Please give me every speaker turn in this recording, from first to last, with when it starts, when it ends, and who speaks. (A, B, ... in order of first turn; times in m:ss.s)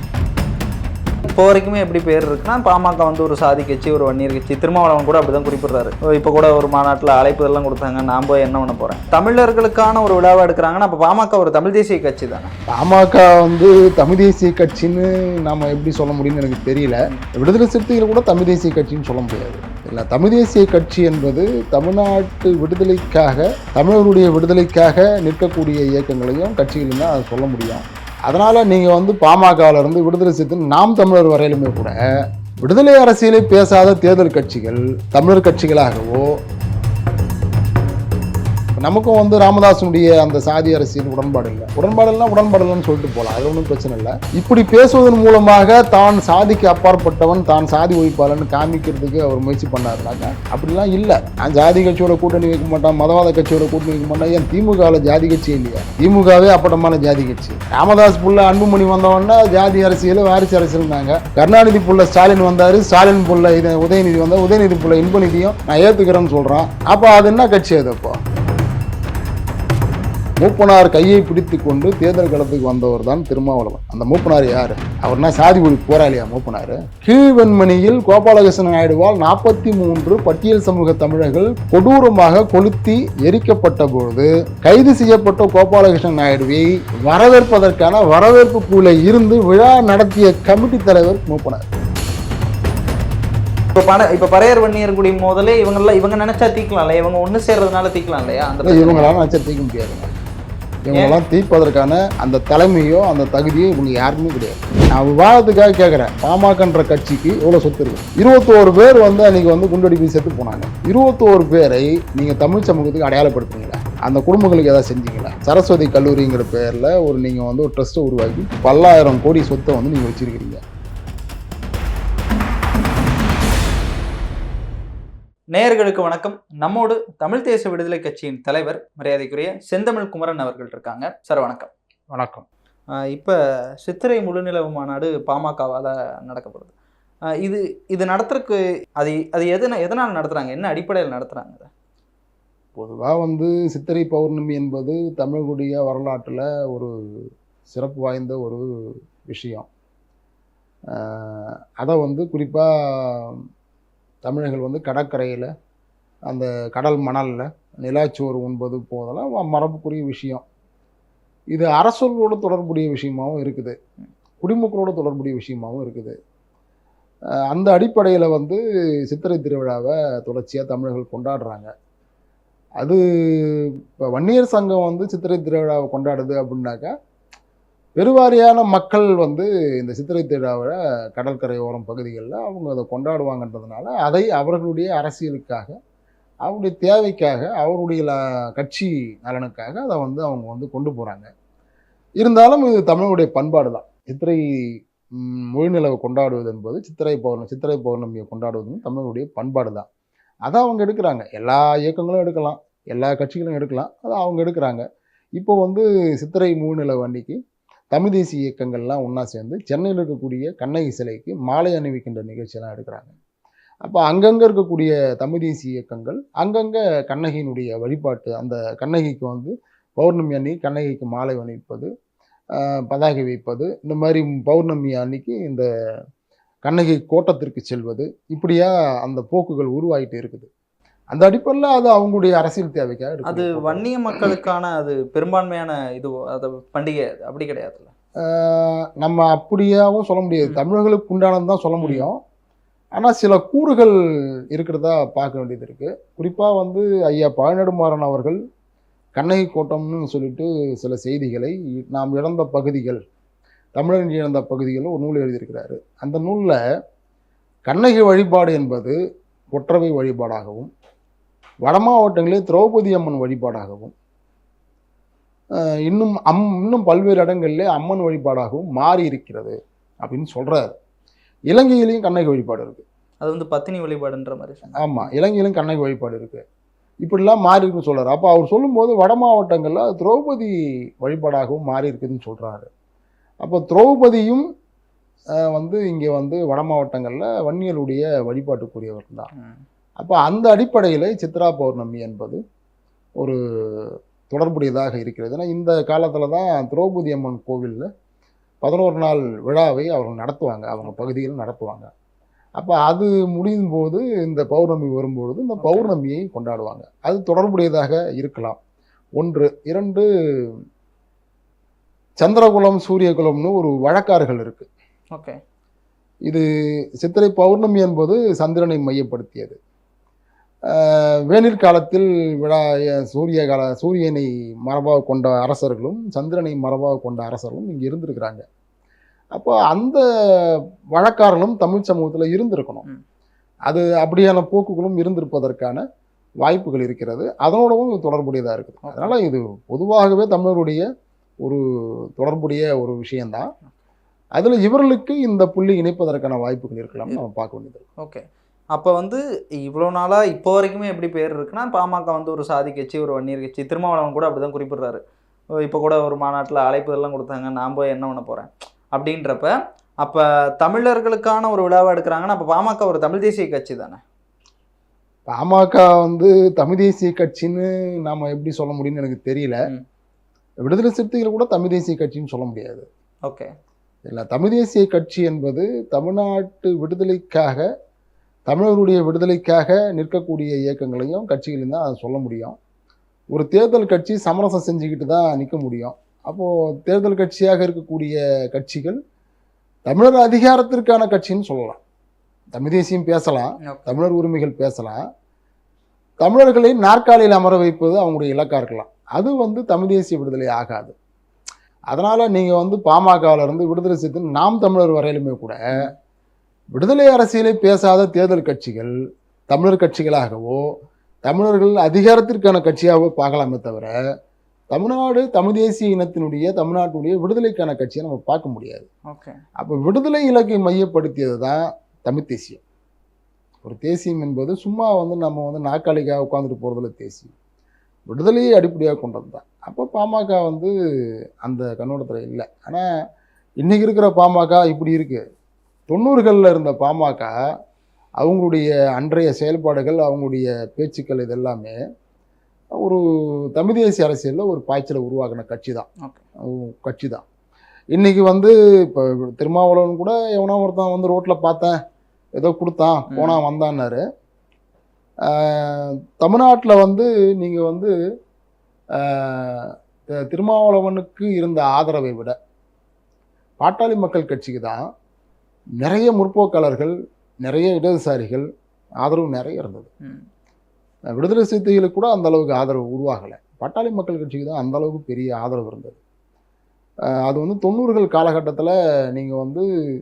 0:01.2-0:12.5 A
0:12.7-0:31.9 B
0:32.6-0:36.4 B
0:38.8-1:08.2 B
1:10.4-1:31.6 B
1:33.7-1:39.1 A
1:38.6-1:40.1 B
1:40.9-2:00.6 B
2:05.5-2:11.7 A
2:12.1-2:12.4 B
2:13.0-2:16.7 A
2:17.4-2:21.7 A
2:22.8-2:29.7 B
2:30.9-2:33.4 B
2:34.2-2:35.5 B
2:36.3-2:40.4 B
2:41.5-2:43.8 B
2:44.4-2:46.1 B
2:47.5-2:51.7 B
2:52.8-2:56.9 B
2:58.0-3:05.7 B
3:06.4-3:11.3 B
3:12.2-3:19.9 B
3:20.4-3:24.8 B
3:25.4-3:27.4 B
3:27.9-3:33.1 B
3:33.8-3:41.9 B
3:42.5-3:45.7 B
3:46.6-3:50.5 B
3:51.1-3:54.4 B
3:53.2-3:57.9 A
3:58.2-4:02.2 B
4:01.8-4:02.1 A
4:03.0-4:03.9 B
4:04.5-4:08.4 B
4:09.2-4:13.0 B
4:13.8-4:16.6 B
4:17.6-4:19.0 B
4:19.5-4:20.7 B
4:21.6-4:23.9 B
4:25.5-4:30.7 B
4:31.5-4:32.8 B
4:33.2-4:35.1 A
4:34.8-4:36.4 B
4:37.0-4:42.7 B
4:43.4-4:44.4 B
4:45.4-4:49.3 B
4:49.3-4:49.6 A
4:50.0-4:52.4 B
4:53.2-4:57.9 B
4:58.6-5:01.9 B
5:02.6-5:08.6 B
5:05.6-5:05.9 A
5:09.2-5:10.6 B
5:12.2-5:14.7 B
5:17.0-5:19.6 B
5:20.7-5:28.4 B
5:29.3-5:32.8 B
5:33.7-5:35.8 B
5:36.4-5:40.8 B
5:38.8-5:39.1 A
5:42.2-5:43.5 B
5:44.4-5:47.8 B
5:48.0-5:55.0 A
5:55.6-6:04.0 A
6:05.3-6:09.6 B
6:10.6-6:12.8 B
6:14.0-6:17.6 B
6:18.5-6:22.6 B
6:23.3-6:29.0 B
6:29.8-6:31.8 B
6:32.5-6:35.0 B
6:33.6-6:33.9 A
6:36.2-6:40.9 B
6:41.9-6:45.9 B
6:46.7-6:48.9 B
6:49.5-6:50.7 B
6:51.2-6:53.9 B
6:54.7-6:58.9 B
6:59.1-6:59.4 A
6:59.6-7:02.6 B
7:03.6-7:07.3 B
7:08.1-7:10.7 B
7:11.4-7:12.9 B
7:13.6-7:15.2 B
7:15.9-7:17.3 B
7:18.2-7:21.8 B
7:22.8-7:25.9 B
7:26.4-7:27.2 B
7:27.9-7:31.8 B
7:32.4-7:34.0 B
7:33.1-7:33.4 A
7:35.2-7:37.9 B
7:38.9-7:42.3 B
7:43.6-7:44.8 B
7:45.8-7:48.5 B
7:49.0-7:49.9 B
7:51.1-7:56.0 B
7:57.1-7:59.6 B